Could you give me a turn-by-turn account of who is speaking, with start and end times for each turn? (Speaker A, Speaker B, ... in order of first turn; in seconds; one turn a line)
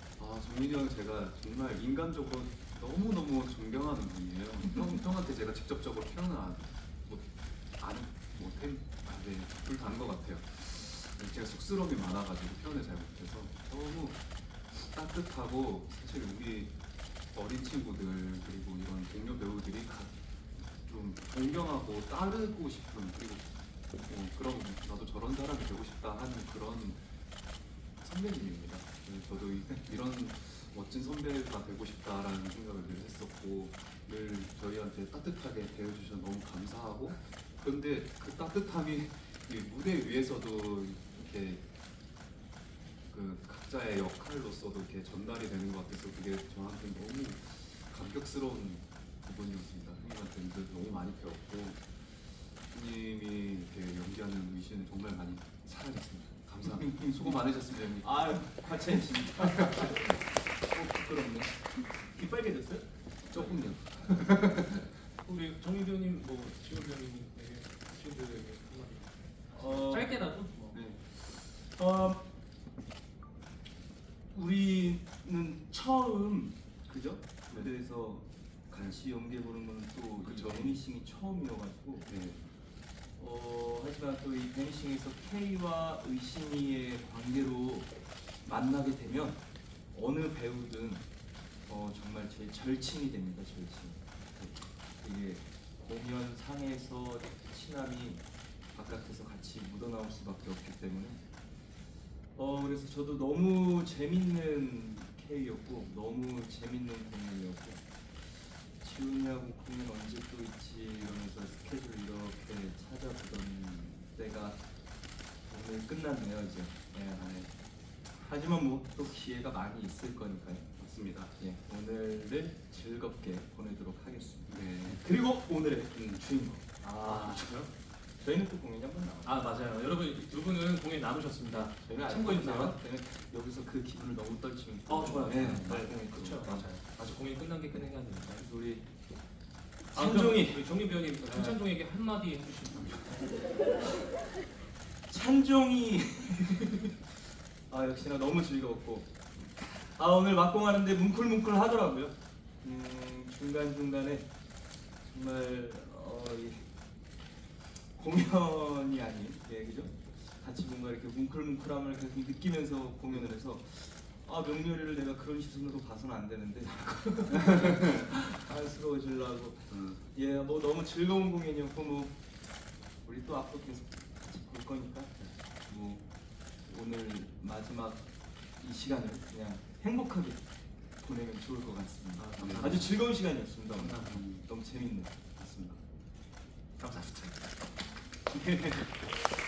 Speaker A: 0.2-16.8
Speaker A: 17.3-27.1
Speaker A: 28.0-41.6
Speaker A: 43.1-58.8
Speaker B: 56.6-63.6
Speaker A: 59.5-60.0
Speaker A: 63.3-65.0
Speaker C: 65.2-70.8
Speaker B: 69.5-70.2
Speaker A: 70.7-71.0
Speaker B: 71.0-72.2
Speaker B: 74.3-82.1
Speaker A: 80.2-80.8
Speaker A: 82.1-82.5
Speaker B: 83.2-91.1
Speaker B: 91.7-94.0
Speaker A: 94.3-94.6
Speaker B: 95.0-101.2
Speaker B: 102.3-114.6
Speaker B: 115.5-117.3
Speaker A: 117.2-117.5
Speaker B: 118.1-120.7
Speaker A: 120.8-121.4
Speaker B: 121.4-129.4
Speaker A: 124.5-125.0
Speaker C: 127.0-127.7
Speaker C: 129.2-132.8
Speaker B: 131.7-136.7
Speaker C: 134.9-138.5
Speaker B: 138.4-138.9
Speaker B: 139.9-141.6
Speaker C: 139.9-143.5
Speaker B: 145.1-154.3
Speaker B: 155.0-156.7
Speaker B: 157.8-172.2
Speaker A: 169.7-170.0
Speaker B: 173.0-176.0
Speaker B: 176.6-178.1
Speaker B: 178.6-180.4
Speaker B: 181.0-185.2
Speaker C: 182.1-183.1
Speaker A: 182.4-182.9
Speaker C: 183.7-184.2
Speaker A: 184.1-184.5
Speaker A: 185.4-185.8
Speaker C: 186.8-187.4
Speaker B: 188.3-189.2